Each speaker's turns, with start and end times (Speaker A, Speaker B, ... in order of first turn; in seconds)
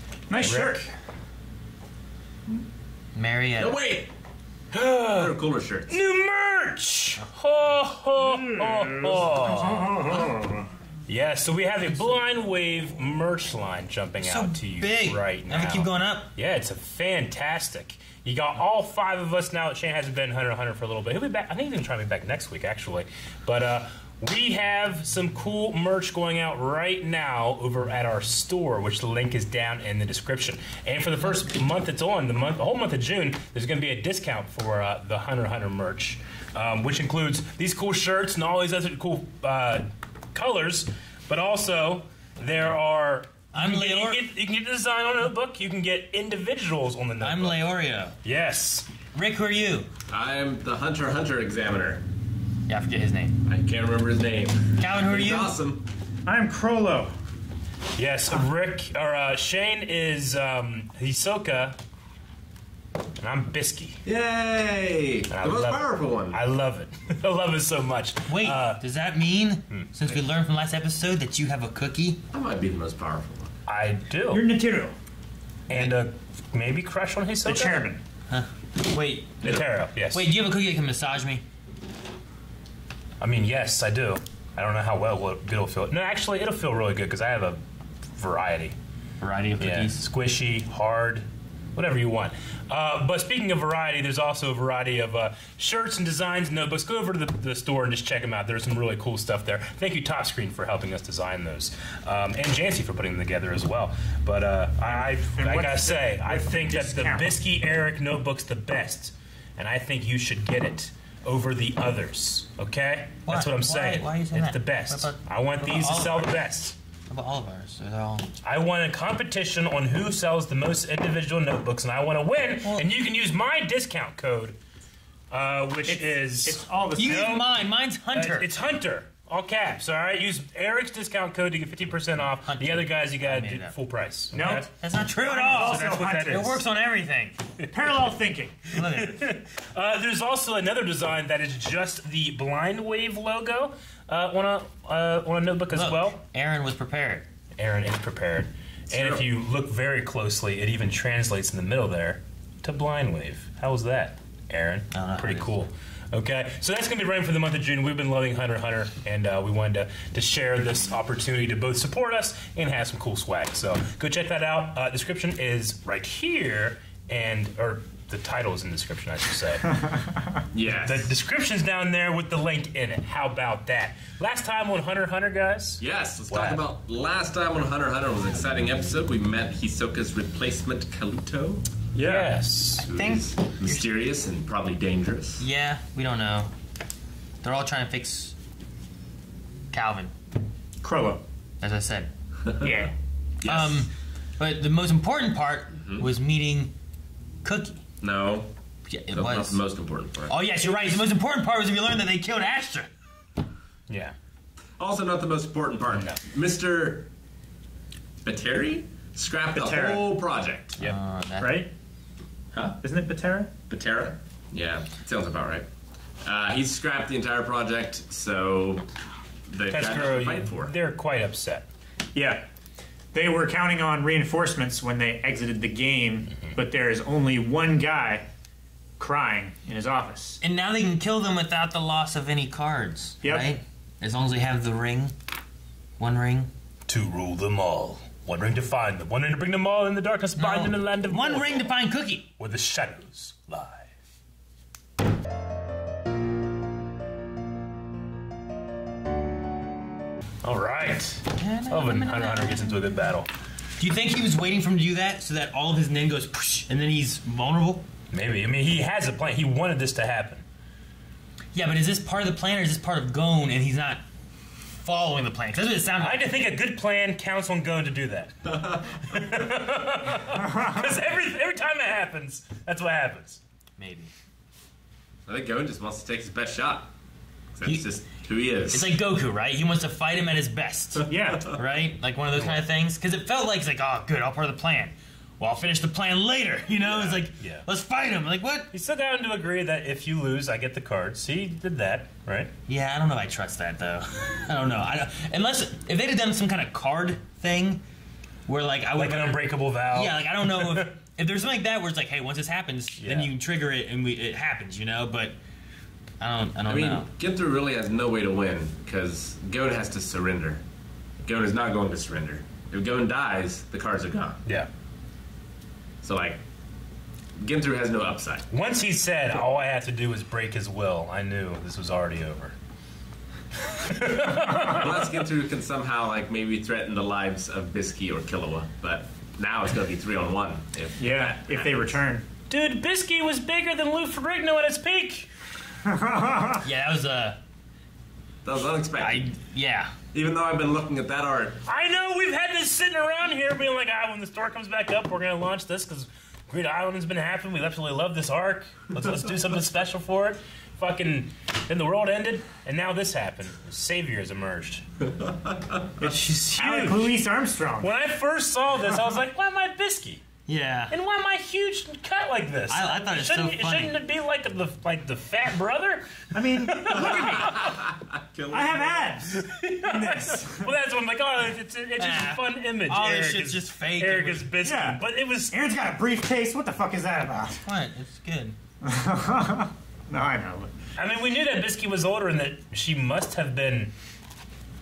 Speaker A: 0.3-0.9, 8.9-10.7, 56.3-57.1, 74.3-75.0, 77.5-78.0, 104.8-107.3, 125.8-127.3, 134.3-134.7, 135.2-136.2, 137.7-138.7, 182.0-182.3, 190.8-191.2, 192.6-192.9, 209.5-210.2, 211.4-211.7, 212.8-213.5, 222.2-222.5, 223.1-228.2, 229.0-230.4, 233.2-233.5, 281.1-281.5, 331.0-332.3, 335.9-336.6, 356.0-357.9, 366.3-367.6, 368.5-370.7, 374.6-377.7, 378.8-380.7
Speaker B: 0.4-0.8, 4.7-5.3, 5.9-10.2, 11.1-47.6, 48.2-48.9, 58.0-61.8, 63.2-64.0, 65.3-68.8, 73.7-74.4, 75.7-77.9, 79.4-80.3, 83.2-87.6, 88.1-88.8, 89.6-116.8, 118.4-124.6, 125.3-127.5, 128.1-134.7, 135.2-136.6, 138.9-146.2, 147.6-169.7, 170.7-176.6, 182.0-182.9, 203.9-204.2, 205.9-206.2, 219.7-221.7, 236.9-241.7, 242.4-243.9, 250.4-253.3, 258.1-260.4, 266.0-273.4, 282.4-282.6, 286.8-287.6, 288.7-292.5, 299.0-300.9, 303.0-303.3, 318.5-322.6, 323.9-325.2, 331.0-331.9, 332.5-335.3, 341.6-354.8, 356.5-357.2, 357.8-360.2, 360.9-367.8, 369.2-375.6, 381.0-383.9
Speaker C: 3.1-3.8, 14.2-16.3, 43.5-44.2, 47.2-48.2, 49.1-49.9, 52.7-53.4, 54.8-55.5, 68.3-72.2, 78.3-81.4, 89.2-90.0, 113.2-116.3, 117.1-118.3, 127.0-128.5, 132.5-133.8, 134.6-137.4, 138.7-139.3, 145.7-147.3, 154.9-155.5, 182.9-183.9, 185.4-186.5, 187.4-188.3, 189.7-190.1, 191.6-192.1, 193.4-196.7, 197.4-197.8, 198.9-199.6, 200.3-202.9, 210.8-211.6, 230.4-235.1, 236.0-236.5, 240.4-242.3, 251.3-253.1, 253.8-257.9, 261.6-264.0, 264.7-266.3, 273.8-274.1, 278.7-288.7, 292.7-297.8, 298.5-305.4, 306.2-307.1, 336.6-337.4, 339.0-339.9, 360.5-360.9, 362.7-364.0, 372.0-374.5, 377.5-378.6
Speaker D: 3.6-4.1, 5.1-5.9, 50.1-52.0, 53.5-55.9, 64.0-66.4, 72.3-73.5, 148.9-149.3, 170.5-171.1, 175.8-181.6, 182.8-185.4, 193.4-193.8, 195.8-196.1, 198.0-198.5, 199.1-200.3, 204.8-207.1, 208.2-210.8, 213.7-215.7, 216.2-218.9, 219.5-220.7, 275.3-276.9, 277.5-278.9, 306.7-310.6, 311.2-314.4, 316.0-316.4, 317.4-318.5, 324.6-331.3, 338.4-339.3, 340.1-341.6, 367.5-369.1